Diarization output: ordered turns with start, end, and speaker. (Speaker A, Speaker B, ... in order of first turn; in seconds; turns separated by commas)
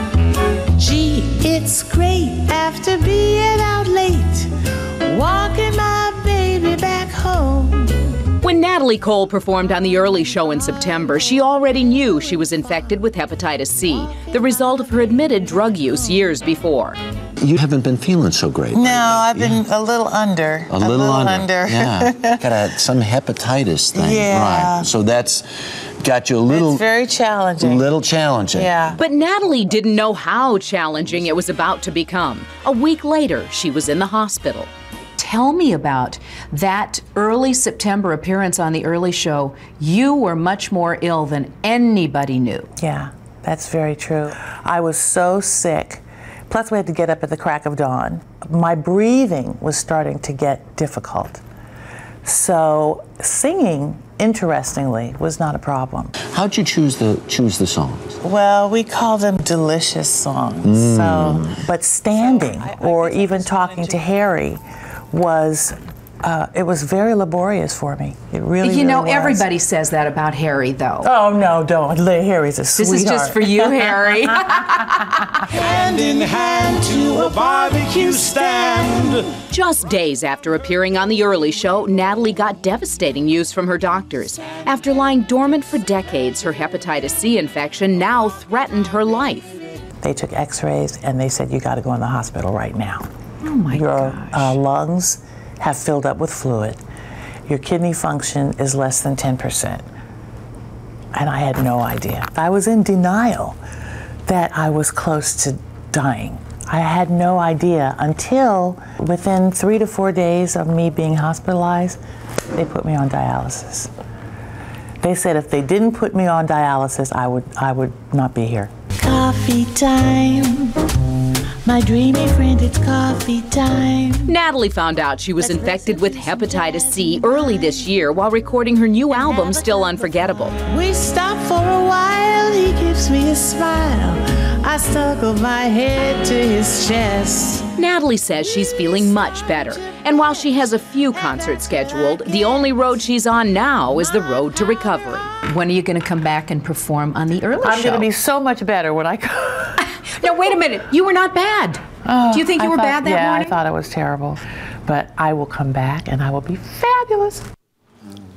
Speaker A: 0.8-4.5, Speaker A: 5.1-7.8, Speaker B: 5.2-6.0, Speaker C: 8.4-17.0, Speaker D: 17.4-19.6, Speaker A: 18.7-22.4, Speaker D: 20.7-25.5, Speaker A: 23.9-24.9, Speaker D: 26.0-26.9, Speaker A: 26.5-27.9, Speaker D: 27.6-29.0, Speaker A: 28.5-29.0, Speaker C: 29.0-42.7, Speaker A: 42.8-51.4, Speaker A: 52.2-56.2, Speaker D: 56.3-58.2, Speaker A: 58.2-64.6, Speaker D: 60.6-61.6, Speaker A: 65.1-69.5, Speaker C: 68.6-71.1, Speaker A: 71.0-74.8, Speaker C: 72.8-75.5, Speaker B: 75.6-79.2, Speaker C: 79.4-89.5, Speaker A: 90.0-93.0, Speaker C: 93.4-94.6, Speaker A: 93.7-96.8, Speaker A: 97.5-99.8, Speaker A: 101.1-103.6, Speaker A: 104.3-112.0, Speaker A: 112.5-113.9, Speaker A: 115.0-120.9, Speaker A: 121.7-124.3, Speaker C: 124.3-130.6, Speaker A: 125.6-126.7, Speaker A: 130.7-137.7, Speaker C: 137.7-148.1, Speaker A: 147.6-149.8, Speaker C: 149.8-153.6, Speaker A: 152.1-157.4